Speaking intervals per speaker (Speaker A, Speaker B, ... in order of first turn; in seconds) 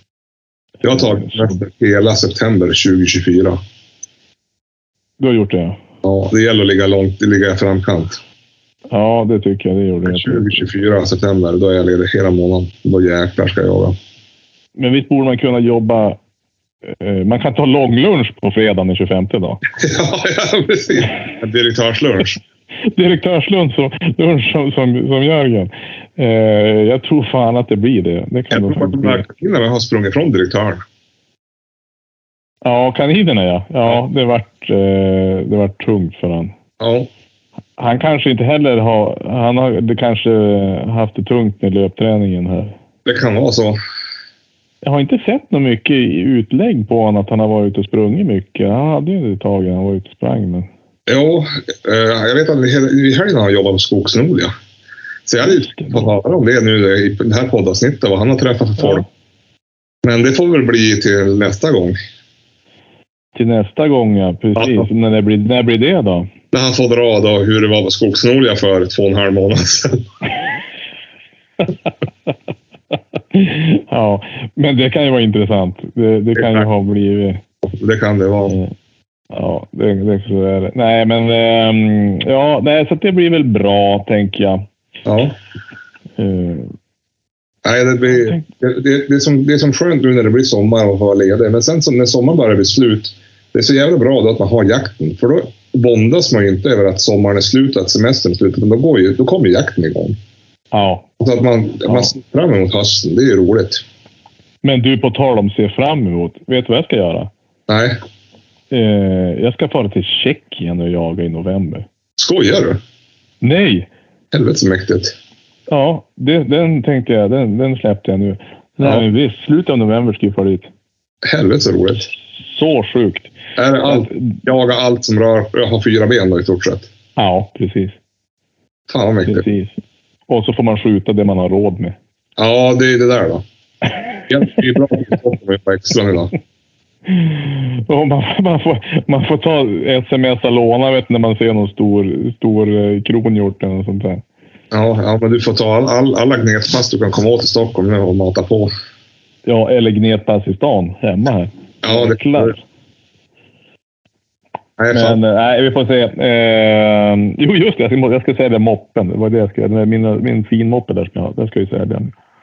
Speaker A: 0.8-3.6, 6.0-8.2, 10.1-13.9, 19.7-22.4, 28.5-30.8, 36.8-37.1, 43.0-43.8, 51.1-54.5, 55.2-59.0, 60.0-62.0, 64.6-64.8, 66.5-70.0, 76.3-76.7, 77.6-78.5, 85.0-85.3, 87.6-100.2, 101.2-103.8, 107.7-108.0, 112.2-112.8, 114.3-115.1, 118.8-119.1, 121.2-122.1, 123.5-126.9, 128.9-129.4, 132.4-133.4, 134.3-136.3, 144.7-148.7, 151.8-152.5, 154.8-155.2
Speaker B: 0.9-1.6, 5.2-5.8, 8.9-10.7, 14.8-16.2, 16.9-19.6, 22.9-29.2, 32.6-36.5, 37.8-42.7, 44.8-50.7, 55.4-56.1, 58.8-59.0, 63.4-66.3, 73.3-77.4, 78.5-78.7, 79.3-84.6, 86.2-86.7, 88.1-88.4, 100.7-101.0, 101.9-102.1, 104.6-107.3, 108.7-111.8, 113.4-113.9, 115.7-120.7, 122.4-123.3, 123.8-124.4, 127.2-128.0, 129.2-131.9, 137.1-144.2, 149.4-152.6, 154.9-162.1